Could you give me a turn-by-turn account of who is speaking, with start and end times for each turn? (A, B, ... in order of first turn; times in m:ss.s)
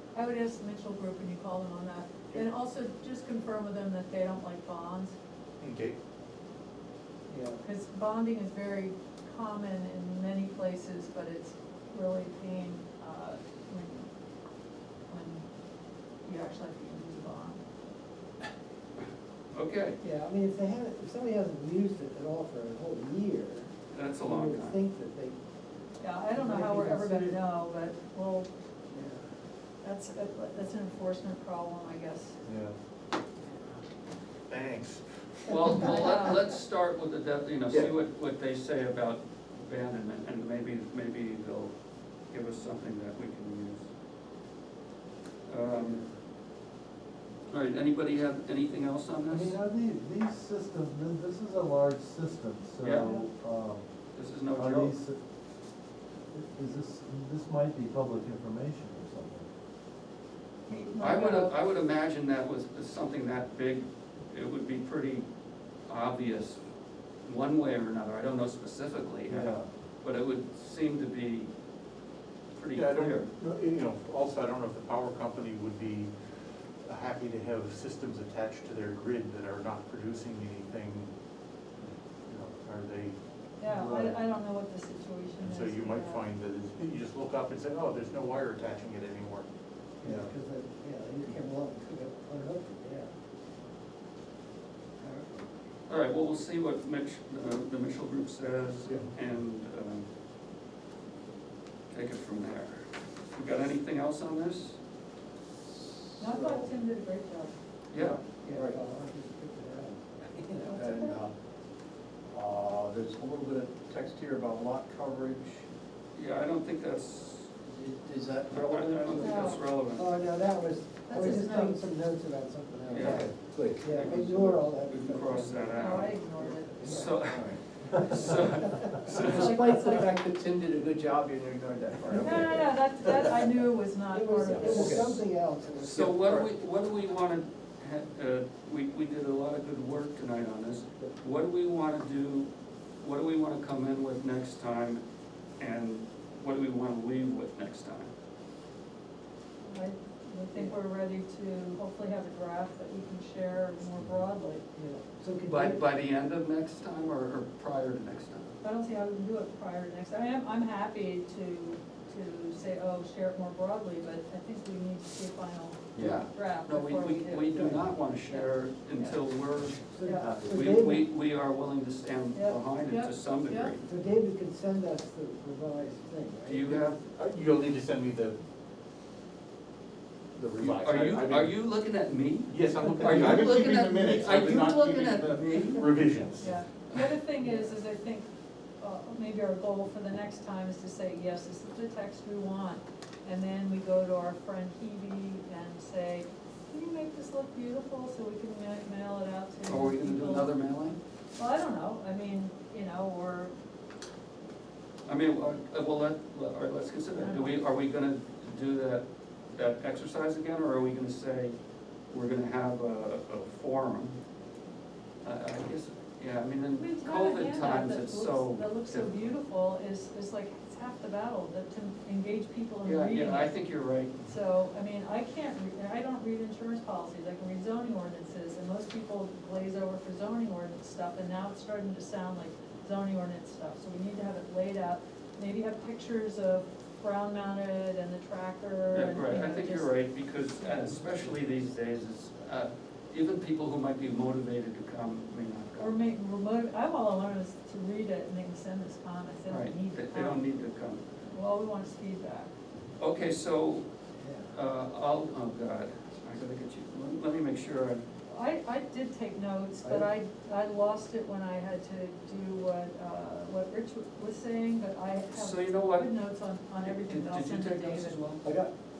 0:00.1-0:05.1 A
0:05.6-0:06.0 B
0:07.3-0:07.6 C
0:07.6-0:14.1 A
0:15.1-0:15.5 A
0:16.2-0:17.6 A
0:19.5-0:20.0 D
0:20.0-0:25.4 C
0:23.9-0:24.8 D
0:26.0-0:28.5 A
0:26.3-0:27.4 C
0:29.8-0:32.4 A
0:32.4-0:32.7 E
0:34.5-0:36.2 B
0:35.5-0:41.7 D
0:35.8-0:36.5 A
0:42.3-0:43.9 D
0:45.4-0:46.0 D
0:47.5-0:49.6 D
0:49.3-0:53.8 E
0:52.8-0:53.2 D
0:54.1-0:54.9 D
0:54.5-0:55.2 E
0:56.3-0:59.5 E
1:00.7-1:01.6 A
1:01.0-1:05.3 D
1:05.9-1:06.6 D
1:07.2-1:11.5 D
1:09.3-1:09.7 E
1:12.5-1:13.3 D
1:12.7-1:21.1 B
1:22.2-1:23.2 B
1:23.6-1:26.2 A
1:23.7-1:24.1 E
1:25.4-1:29.4 B
1:30.0-1:33.1 C
1:30.0-1:30.3 E
1:35.0-1:35.5 C
1:35.9-1:40.1 D
1:41.9-1:44.8 D
1:46.2-1:47.5 A
1:46.2-1:46.7 F
1:47.9-1:48.2 D
1:48.0-1:48.8 F
1:48.1-1:51.1 C
1:50.5-1:51.3 F
1:52.3-1:55.6 F
1:56.1-1:57.5 D
1:57.7-1:59.6 F
1:58.5-2:00.1 D
1:59.2-1:59.6 A
1:59.9-2:03.2 C
2:01.1-2:01.8 A
2:02.9-2:06.2 D
2:03.0-2:03.8 F
2:03.8-2:05.9 C
2:05.8-2:07.0 A
2:06.8-2:09.8 D
2:06.8-2:08.2 F
2:06.8-2:07.5 C
2:08.1-2:09.0 C
2:09.2-2:10.1 A
2:09.2-2:13.3 F
2:12.1-2:15.0 A
2:14.1-2:16.1 C
2:14.4-2:15.2 F
2:15.8-2:25.0 D
2:16.0-2:16.5 F
2:25.6-2:28.1 D
2:29.6-2:34.6 A
2:34.7-2:35.8 C
2:35.5-2:38.5 D
2:38.6-2:49.3 A
2:45.9-2:53.9 D
2:49.9-2:51.0 C
2:50.0-2:50.4 A
2:50.2-2:50.7 E
2:52.3-2:53.7 A
2:53.8-2:57.0 C
2:56.5-2:57.0 D
2:57.0-2:58.4 B
3:00.3-3:01.5 B
3:00.6-3:06.2 D
3:02.5-3:06.6 B
3:06.4-3:08.3 A
3:08.8-3:20.5 A
3:19.6-3:21.0 D
3:21.4-3:23.5 A
3:25.0-3:31.6 D
3:27.1-3:27.6 A
3:32.1-3:34.2 D
3:35.2-3:39.3 D
3:36.8-3:43.5 A
3:42.8-3:44.2 D
3:44.2-4:00.1 A
3:58.9-4:06.0 D
4:00.6-4:01.1 A
4:05.8-4:10.4 A
4:09.5-4:11.3 D
4:11.2-4:12.5 A
4:13.0-4:13.9 D
4:14.2-4:14.5 C
4:14.5-4:18.0 D
4:18.3-4:28.2 A
4:25.3-4:26.1 D
4:26.8-4:28.4 D
4:28.4-4:28.7 F